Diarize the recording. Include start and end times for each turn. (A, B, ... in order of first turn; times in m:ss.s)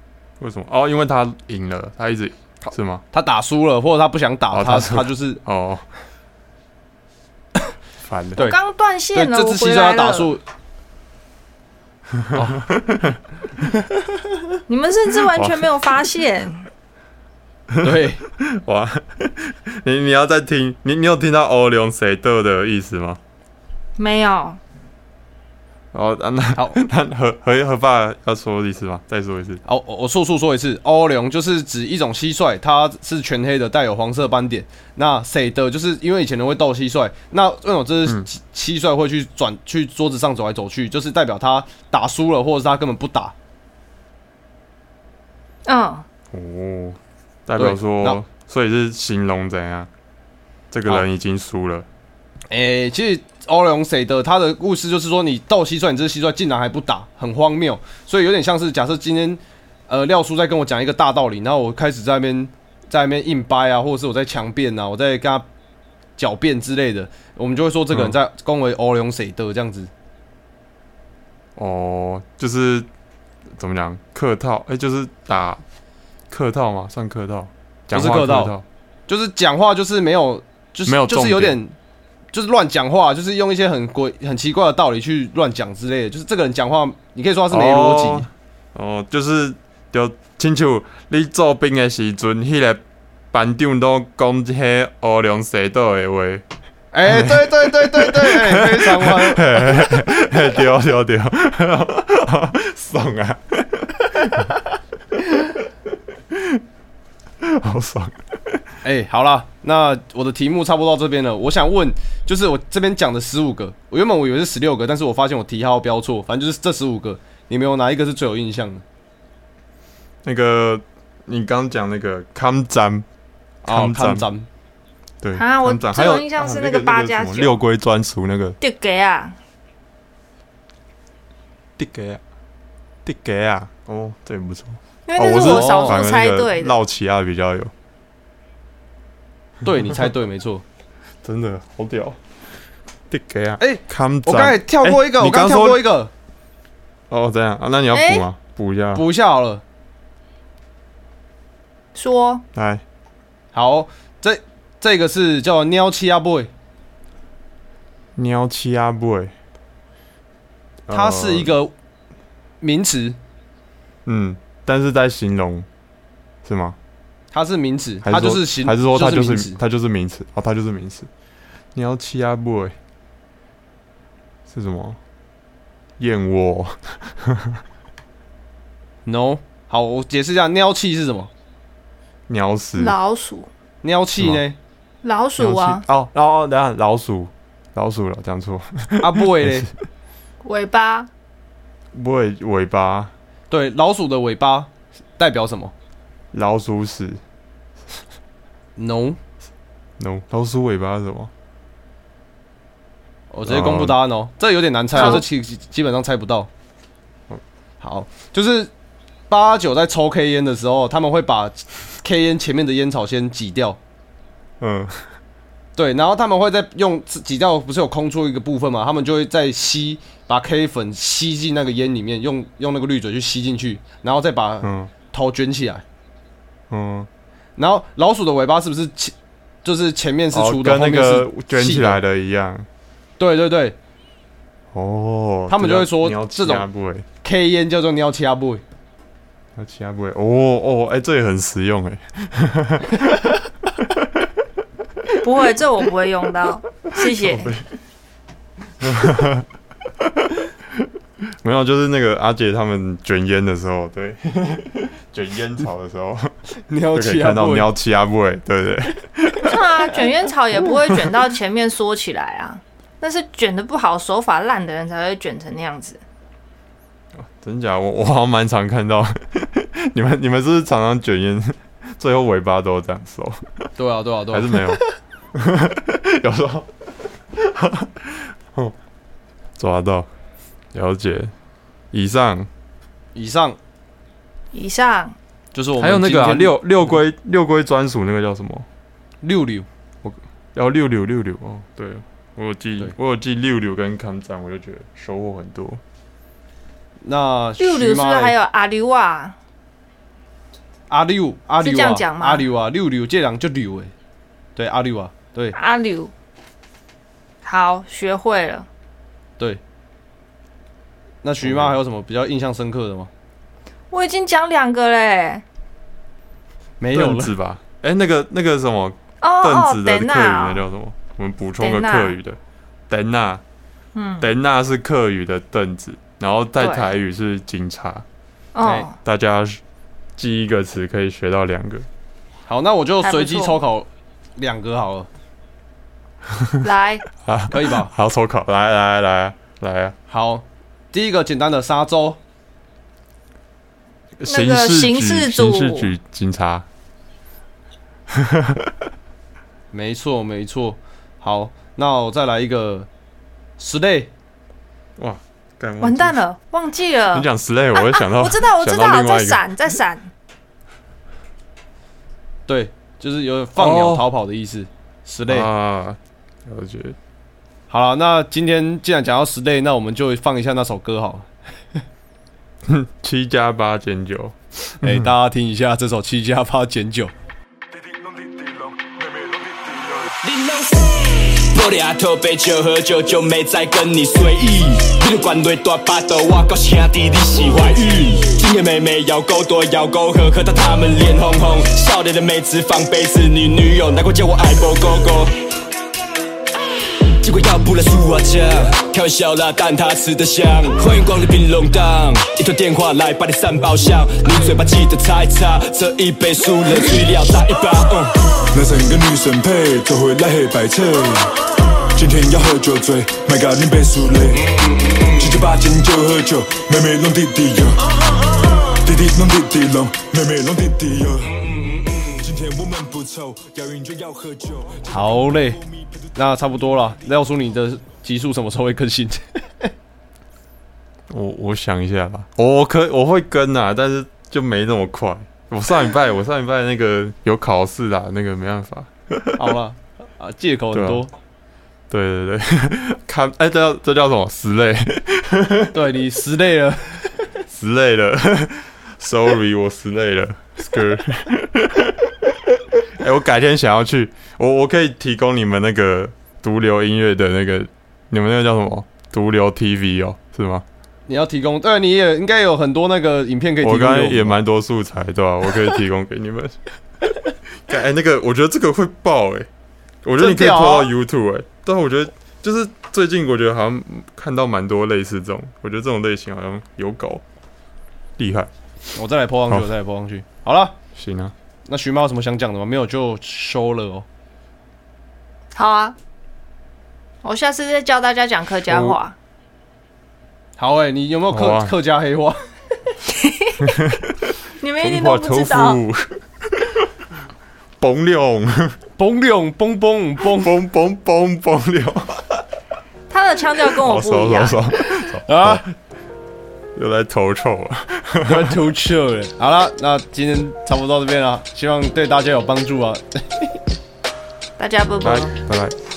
0:00.4-0:03.0 A
0:02.6-0:05.4 B
0:04.5-0:05.9 A
0:08.0-0:08.4 A
0:08.4-0:10.3 C
0:09.1-0:10.4 B
0:12.2-0:13.2 A
0:12.3-0:12.7 B
0:14.7-0:16.7 C
0:15.3-0:15.9 A
0:17.7-0:23.2 A
0:17.8-0:18.2 B
0:24.0-0:24.6 C
0:25.9-0:29.6 A
0:26.6-0:26.8 B
0:29.6-0:43.3 B
0:45.7-0:46.0 C
0:46.3-0:49.9 A
0:47.6-0:48.2 B
0:50.7-0:51.9 A
0:52.5-1:05.5 B
1:06.2-1:09.9 B
1:07.9-1:08.2 A
1:11.6-1:12.9 A
1:13.6-1:15.6 A
1:16.3-1:18.6 A
1:17.9-1:18.5 B
1:19.1-1:21.8 B
1:20.8-1:21.6 A
1:22.3-1:28.3 B
1:27.5-1:36.4 A
1:36.9-1:40.1 B
1:37.0-1:44.5 A
1:46.3-1:46.6 A
1:47.4-1:48.6 A
1:48.8-1:58.8 B
2:00.2-2:03.1 A
2:03.6-2:04.5 B
2:03.7-2:04.3 A
2:05.2-2:08.6 A
2:05.4-2:07.6 C
2:08.6-2:09.4 C
2:11.8-2:12.2 A
2:13.0-2:17.7 A
2:15.1-2:16.8 C
2:15.3-2:16.0 B
2:19.6-2:20.6 B
2:21.2-2:22.2 A
2:23.1-2:25.8 A
2:23.6-2:26.1 B
2:27.1-2:29.0 A
2:27.9-2:28.2 C
2:28.9-2:29.6 B
2:32.0-2:32.4 C
2:32.5-2:32.8 A
2:33.5-2:36.5 B
2:38.2-2:39.3 A
2:40.9-2:41.6 A
2:40.9-2:41.7 B
2:42.6-2:43.2 B
2:44.1-2:45.7 A
2:46.4-2:46.8 A
2:47.3-2:49.6 B
2:48.0-2:51.1 A
2:51.7-2:52.8 A
2:54.5-2:55.0 A
2:56.0-2:57.6 A
2:59.0-3:01.3 B
3:02.3-3:03.0 A
3:02.8-3:03.5 C
3:03.8-3:04.6 B
3:05.0-3:05.8 C
3:05.4-3:09.7 A
3:09.0-3:09.7 B
3:10.4-3:11.1 C
3:11.9-3:13.1 A
3:13.5-3:15.7 B
3:16.3-3:17.2 A
3:18.8-3:19.2 B
3:20.0-3:21.3 A
3:23.3-3:26.5 B
3:23.4-3:24.0 A
3:25.0-3:25.2 C
3:27.8-3:28.7 B
3:29.3-3:33.8 B
3:34.6-3:35.1 A
3:35.8-3:45.8 B
3:44.6-3:44.9 A
3:46.7-3:47.1 A
3:47.6-3:52.0 B
3:50.3-3:52.7 A
3:53.2-3:53.8 B
3:54.7-3:57.1 A
3:55.5-3:56.7 B
3:57.2-3:58.6 B
3:59.6-4:04.3 A
4:05.1-4:07.5 C
4:06.8-4:07.7 A
4:08.8-4:09.5 A
4:10.0-4:10.9 A
4:11.4-4:16.3 A
4:16.6-4:17.7 B
4:16.9-4:19.6 A
4:19.4-4:26.0 C
4:27.2-4:33.7 A
4:33.8-4:34.9 B
4:34.3-4:34.8 A
4:35.3-4:36.7 A
4:37.3-4:38.8 A
4:39.6-4:40.1 A
4:40.7-4:41.3 A
4:41.9-4:42.5 A
4:43.2-4:43.6 B
4:44.5-4:45.2 C
4:45.5-4:47.0 B
4:45.8-4:48.7 A
4:49.2-4:49.7 B
4:50.0-4:55.8 A
4:57.0-4:58.3 B
4:57.6-4:59.4 C
5:00.9-5:03.9 B
5:01.6-5:02.4 C
5:04.6-5:05.6 B
5:05.5-5:06.1 C
5:07.4-5:08.7 C
5:11.2-5:13.1 B
5:11.4-5:11.8 A
5:13.9-5:15.4 C
5:16.8-5:17.3 B
5:16.9-5:22.4 A
5:19.2-5:20.7 C
5:21.6-5:22.2 C
5:22.9-5:23.4 A
5:24.0-5:24.3 C
5:24.2-5:28.1 A
5:26.6-5:26.9 C
5:28.6-5:28.9 C
5:28.6-5:28.9 B
5:29.0-5:29.6 A
5:30.2-5:31.9 A
5:32.5-5:35.1 B
5:33.0-5:33.6 C
5:36.3-5:36.6 A
5:36.6-5:37.0 C
5:37.2-5:40.0 A
5:37.5-5:37.9 B
5:40.1-5:42.2 B
5:44.2-5:46.7 A
5:44.3-5:45.9 C
5:48.1-5:48.8 A
5:49.7-5:52.9 B
5:53.6-5:54.1 B
5:55.0-5:56.2 A
5:55.8-6:00.1 C
5:57.1-5:59.4 A
6:02.5-6:05.5 B
6:03.6-6:04.1 A
6:05.3-6:07.0 A
6:07.7-6:11.8 B
6:12.6-6:15.1 A
6:14.8-6:17.1 B
6:17.7-6:20.2 D
6:20.2-6:35.3 E
6:37.2-6:48.1 E
6:48.3-6:51.4 D
6:51.9-6:58.0 D
6:58.7-7:06.8 D
7:04.9-7:05.6 B
7:06.2-7:09.7 B
7:11.1-7:19.5 A
7:19.4-7:21.1 B
7:20.7-7:21.1 A
7:21.9-7:25.8 A
7:25.7-7:27.3 B
7:27.5-7:40.6 A
7:41.1-7:44.4 B
7:43.6-7:46.6 A
7:47.7-7:49.5 A
7:50.0-7:57.2 A
7:50.2-7:50.9 B
7:58.2-7:58.5 A
7:59.0-8:00.8 B
8:01.0-8:01.3 A
8:01.7-8:04.1 B
8:05.6-8:06.0 C
8:07.2-8:09.2 C
8:08.7-8:09.0 A
8:10.6-8:12.4 B
8:11.3-8:11.7 A
8:13.1-8:13.6 C
8:13.6-8:16.9 A
8:14.6-8:15.8 C
8:17.8-8:18.8 A
8:19.0-8:20.5 B
8:20.4-8:22.4 A
8:23.1-8:24.6 C
8:23.7-8:25.7 A
8:25.3-8:25.6 B
8:26.8-8:28.6 A
8:28.2-8:33.6 B
8:34.6-8:35.3 C
8:35.0-8:35.8 A